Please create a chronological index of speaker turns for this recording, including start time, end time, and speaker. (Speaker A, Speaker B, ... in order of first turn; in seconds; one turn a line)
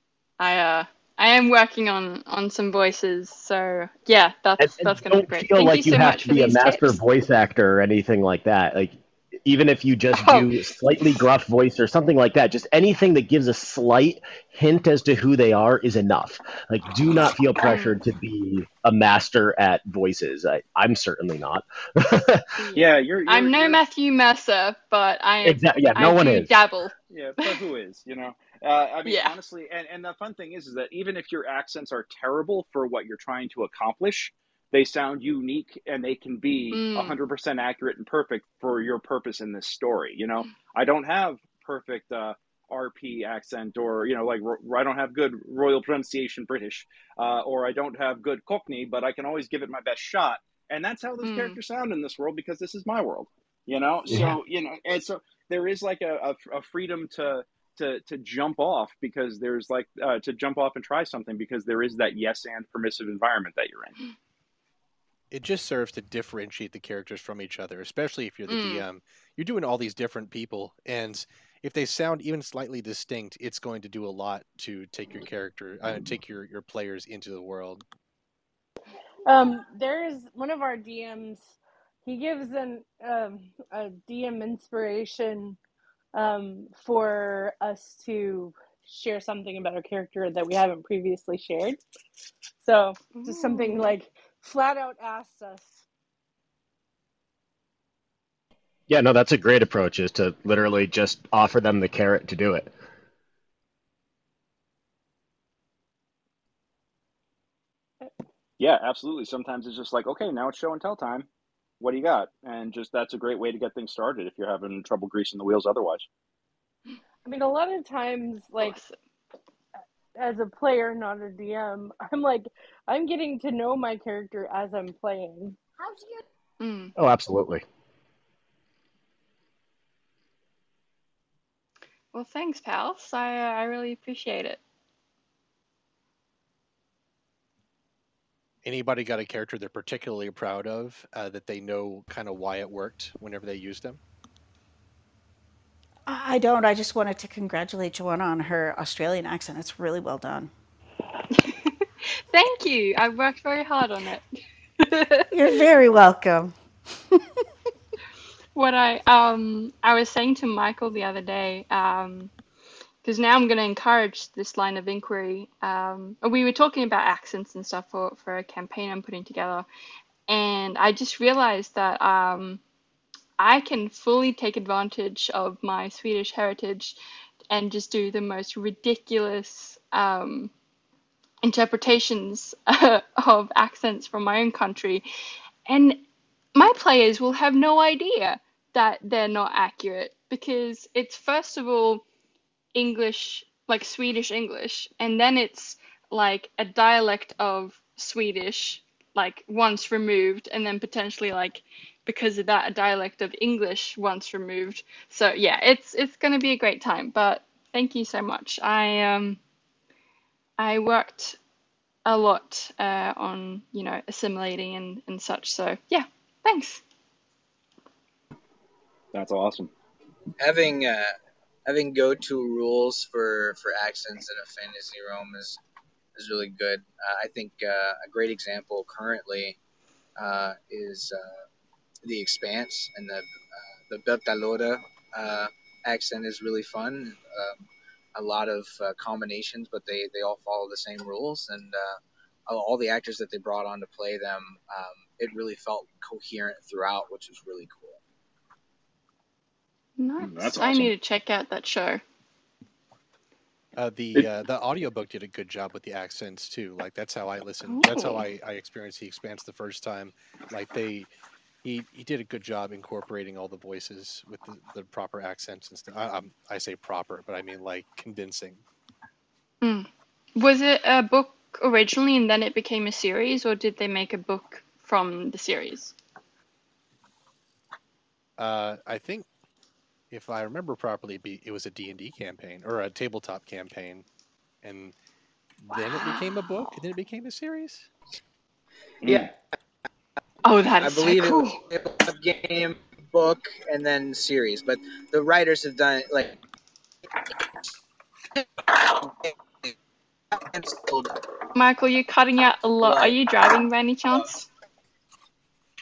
Speaker A: 0.4-7.0
Speaker B: 4.6-22.4
Speaker A: 10.1-10.6
Speaker A: 17.6-18.0
Speaker A: 22.6-26.9
Speaker C: 22.8-23.8
Speaker B: 25.4-26.6
Speaker C: 27.1-64.0
Speaker A: 29.1-29.3
Speaker A: 36.7-37.2
Speaker A: 51.2-51.6
Speaker B: 54.1-54.4
Speaker D: 65.3-77.8
Speaker A: 68.5-68.8
Speaker E: 79.3-81.5
Speaker E: 82.0-85.6
Speaker E: 86.2-91.8
Speaker E: 92.6-95.8
Speaker A: 93.1-93.9
Speaker B: 98.9-102.7
Speaker C: 108.6-111.3
Speaker C: 111.8-116.1
Speaker E: 117.2-118.8
Speaker A: 118.6-119.0
Speaker E: 120.2-125.6
Speaker A: 126.6-126.9
Speaker B: 127.0-127.6
Speaker A: 132.1-134.6
Speaker D: 138.7-144.0
Speaker F: 146.1-150.5
Speaker A: 151.3-151.7
Speaker A: 152.3-154.2
Speaker A: 154.8-155.6
Speaker F: 155.3-156.5
Speaker F: 157.1-157.4
Speaker A: 158.6-162.3
Speaker A: 163.0-169.7
Speaker A: 170.3-172.6
Speaker A: 173.4-177.0
Speaker A: 177.5-180.5
Speaker A: 181.4-185.1
Speaker A: 185.7-186.0
Speaker A: 186.6-192.0
Speaker A: 192.8-209.4
Speaker A: 210.6-211.4
Speaker A: 212.1-216.8
Speaker C: 219.1-219.7
Speaker G: 220.4-221.1
Speaker G: 221.7-225.6
Speaker G: 226.2-229.6
Speaker G: 230.2-231.4
Speaker G: 232.0-233.3
Speaker G: 233.8-248.0
Speaker A: 250.0-252.0
Speaker C: 250.2-250.9
Speaker D: 253.8-261.1
Speaker A: 257.6-258.3
Speaker D: 261.6-268.6
Speaker A: 269.6-275.9
Speaker D: 278.4-279.3
Speaker D: 280.1-284.1
Speaker D: 284.6-284.9
Speaker D: 285.6-287.9
Speaker G: 289.0-289.3
Speaker A: 290.4-291.6
Speaker G: 290.8-296.4
Speaker G: 298.4-299.7
Speaker G: 300.3-301.1
Speaker A: 301.6-304.5
Speaker G: 302.8-303.5